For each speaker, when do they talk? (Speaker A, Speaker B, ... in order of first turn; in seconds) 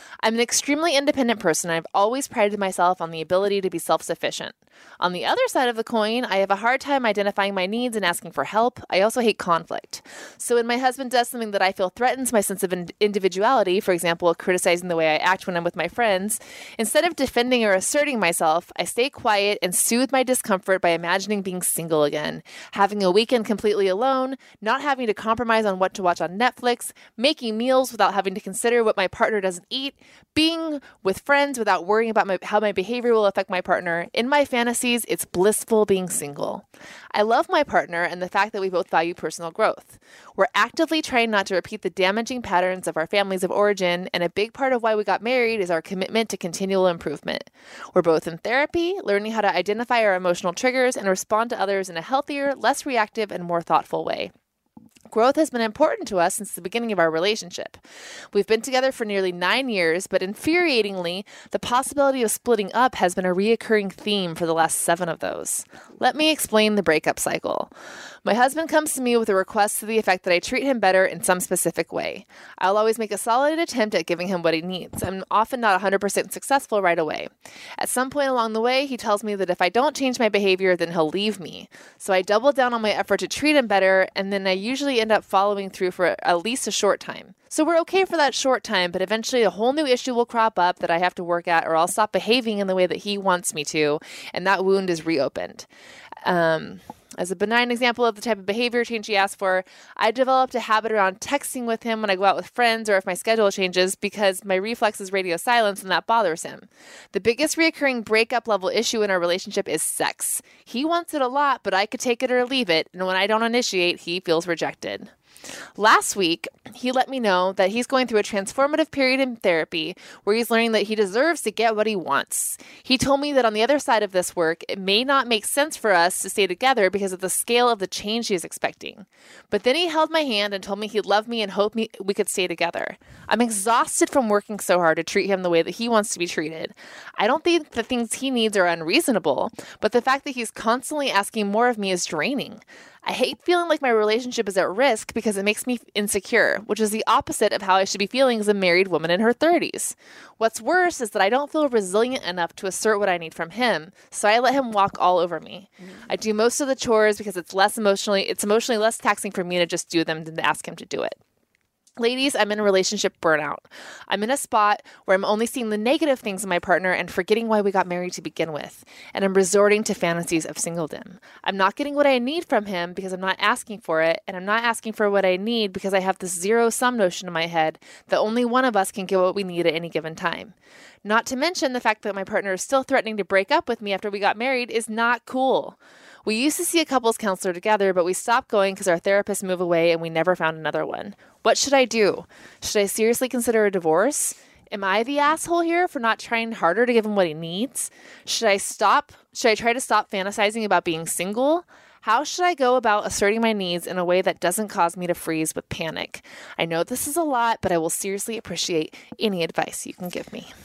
Speaker A: 0.2-54.3, 55.1-57.8, 58.3-67.7, 68.2-95.7, 96.2-115.1, 115.8-161.2, 162.0-210.5